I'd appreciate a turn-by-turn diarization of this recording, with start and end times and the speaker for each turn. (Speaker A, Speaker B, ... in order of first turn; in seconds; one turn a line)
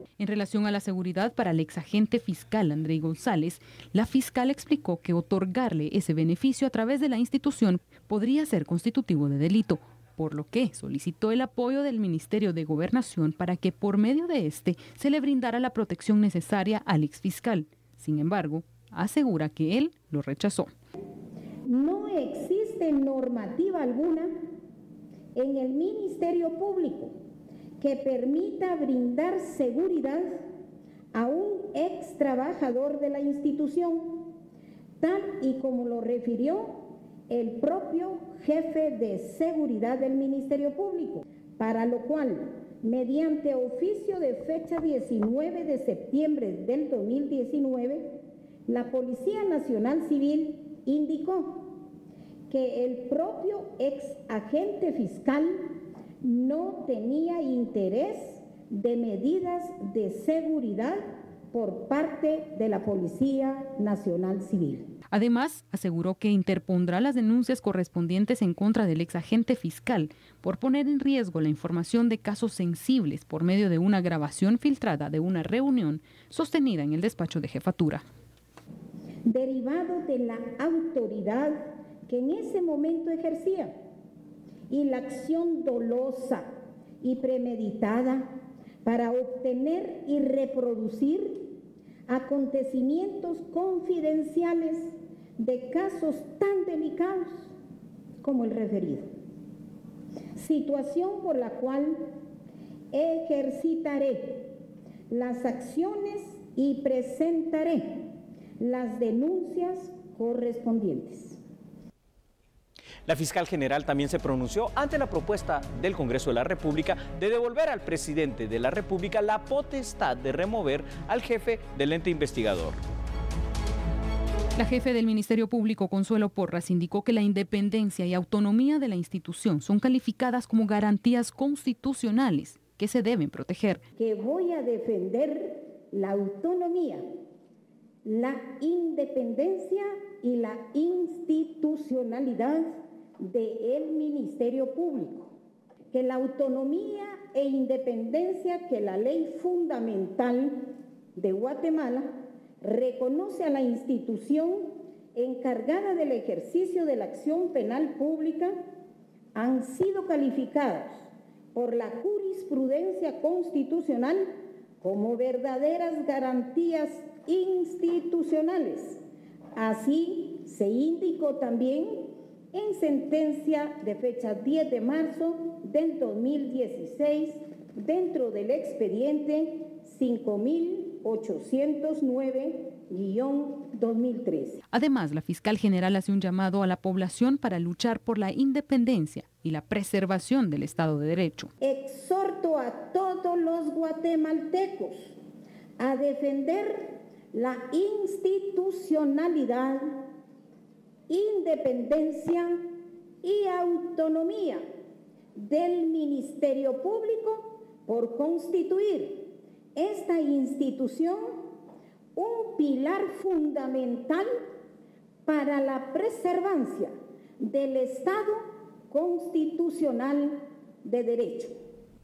Speaker A: 0.2-20.7
Speaker B: 21.7-24.3
Speaker B: 25.4-27.1
Speaker B: 27.8-30.4
Speaker B: 31.1-34.3
Speaker B: 35.0-51.8
Speaker B: 52.5-64.9
Speaker A: 65.1-78.0
Speaker B: 79.2-83.8
Speaker B: 84.7-86.5
Speaker B: 87.0-88.3
Speaker B: 88.8-91.5
Speaker B: 92.1-97.5
Speaker B: 98.2-99.1
Speaker B: 100.4-102.1
Speaker B: 102.9-104.5
Speaker B: 105.1-108.1
Speaker B: 108.6-111.4
Speaker C: 113.1-122.8
Speaker A: 124.6-133.8
Speaker B: 134.0-137.1
Speaker B: 138.1-145.3
Speaker B: 145.9-158.6
Speaker B: 159.3-161.0
Speaker B: 161.6-169.0
Speaker B: 169.6-184.6
Speaker A: 184.7-191.5
Speaker B: 191.6-195.2
Speaker B: 195.8-200.0
Speaker B: 201.1-204.6
Speaker B: 205.3-211.5
Speaker B: 212.2-214.3
Speaker B: 215.3-221.5